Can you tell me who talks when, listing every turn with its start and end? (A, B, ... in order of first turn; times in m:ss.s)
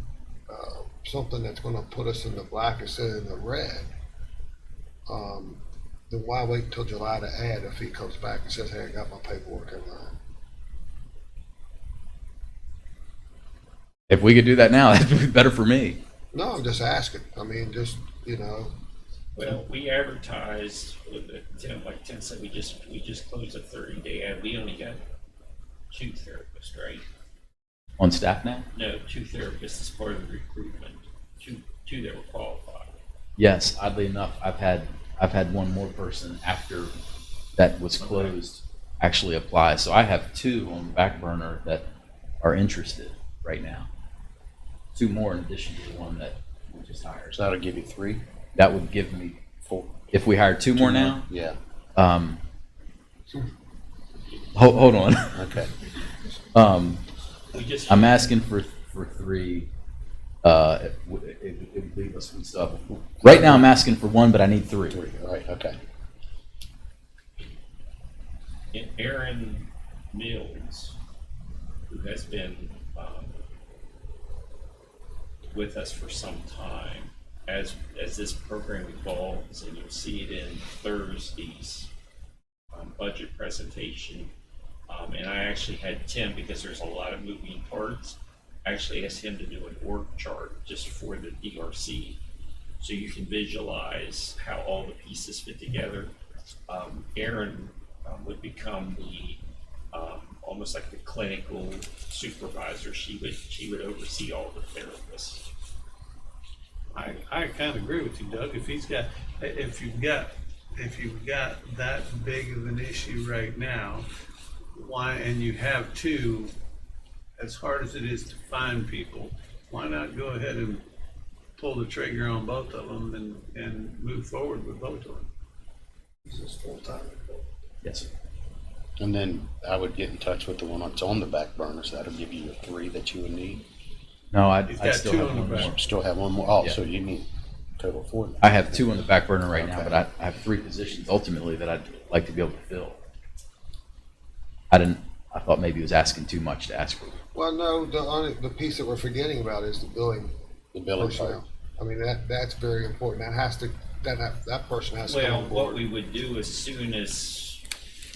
0:00.5-0:03.9 A
0:05.1-0:10.2 A
0:14.1-0:16.0 B
0:16.3-0:18.7 A
0:19.4-0:25.0 C
0:25.9-0:27.0 C
0:28.0-0:28.7 B
0:28.7-0:33.0 C
0:33.4-0:36.9 B
0:37.6-0:41.8 B
0:38.0-0:38.4 C
0:42.4-0:43.9 B
0:44.9-0:47.4 B
0:47.3-0:48.2 D
0:48.6-0:49.4 B
0:49.7-0:50.1 D
0:50.1-0:51.3 B
0:50.8-0:51.6 D
0:52.0-0:52.4 B
0:54.5-0:55.6 B
0:55.4-0:55.7 D
0:56.5-0:57.0 B
0:57.5-0:58.3 C
0:57.9-0:59.7 B
1:00.4-1:05.0 B
1:03.2-1:03.7 D
1:04.9-1:05.8 D
1:08.7-1:11.0 C
1:11.9-1:13.4 C
1:15.5-1:21.9 C
1:22.7-1:24.3 C
1:24.9-1:32.2 C
1:32.8-1:36.1 C
1:36.7-1:45.5 C
1:46.9-1:54.1 E
1:54.8-1:56.5 E
1:57.4-2:00.8 E
2:01.6-2:05.3 E
2:06.3-2:07.5 A
2:07.8-2:08.1 B
2:09.0-2:13.6 D
2:14.3-2:15.8 B
2:14.7-2:15.7 E
2:15.6-2:17.3 D
2:17.8-2:19.0 D
2:18.4-2:23.0 B
2:19.5-2:20.0 D
2:24.7-2:27.2 B
2:27.3-2:30.3 A
2:30.7-2:31.4 D
2:31.0-2:35.8 A
2:35.1-2:37.6 C